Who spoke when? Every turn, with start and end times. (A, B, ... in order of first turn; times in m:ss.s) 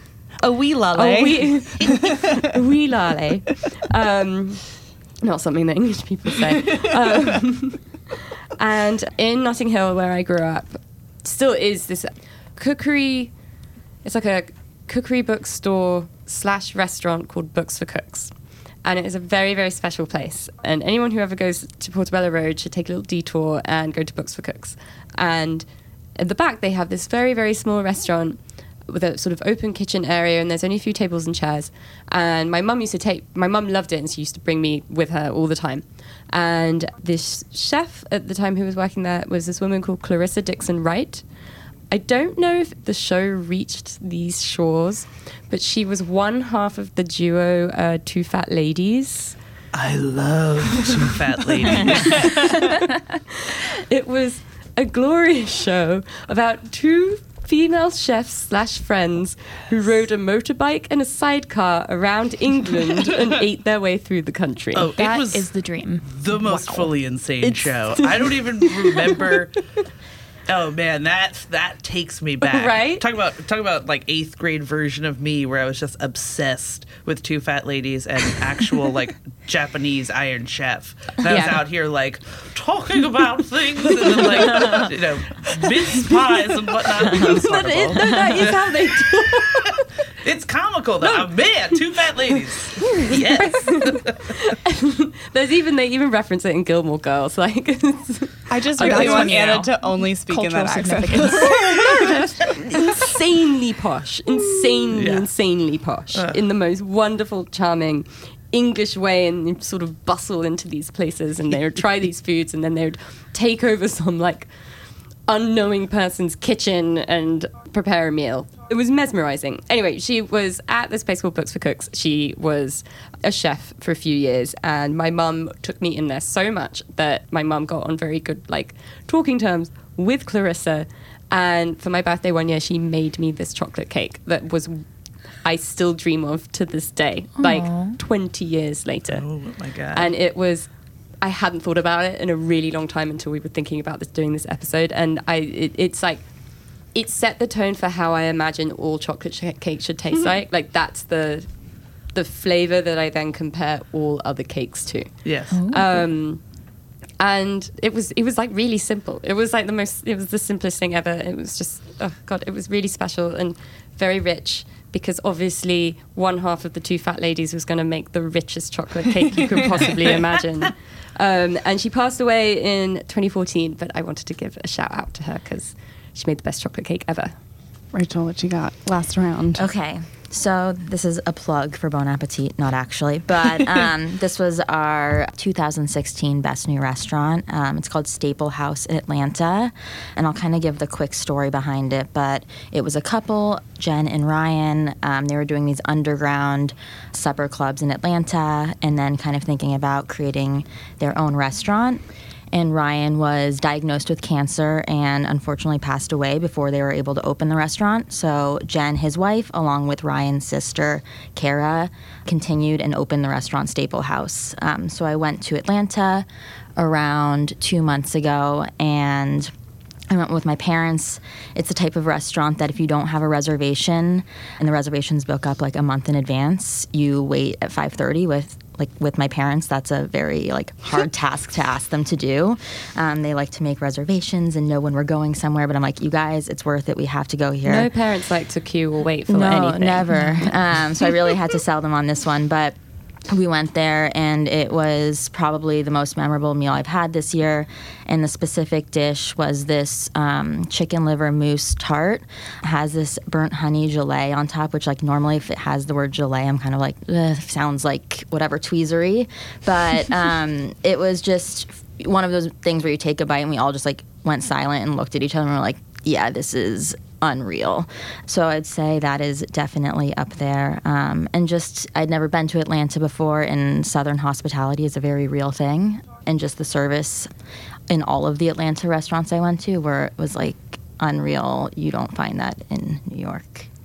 0:00.4-0:02.4 A
0:00.9-0:13.4 B
0:14.0-0:41.3 B
0:41.9-0:49.4 B
0:49.7-0:52.4 C
0:51.7-1:04.9 B
1:04.7-1:05.5 C
1:05.0-1:06.6 D
1:06.0-1:09.5 C
1:07.4-1:09.2 B
1:10.5-1:34.4 C
1:12.4-1:13.0 B
1:21.2-1:21.6 B
1:24.4-1:24.8 B
1:25.6-1:26.1 B
1:26.9-1:29.8 B
1:31.0-1:32.2 B
1:32.8-1:39.6 B
1:38.5-1:42.5 A
1:38.8-1:42.2 D
1:41.4-1:54.7 B
1:44.9-1:45.3 C
1:46.1-1:46.4 C
1:55.2-2:14.8 B
2:15.4-2:19.3 B
2:17.4-2:17.9 D
2:19.1-2:20.1 C
2:19.9-2:20.7 B
2:21.2-2:26.3 B
2:26.9-2:31.5 B
2:32.1-2:36.4 B
2:35.2-2:35.6 C
2:35.5-2:36.0 D
2:37.2-2:57.3 B
2:57.9-2:59.6 A
2:59.5-3:36.2 E
3:36.8-3:39.5 E
3:40.1-3:57.9 E
3:57.6-4:00.4 B
3:59.3-4:02.8 E
4:03.3-4:37.3 E
4:37.9-4:43.7 E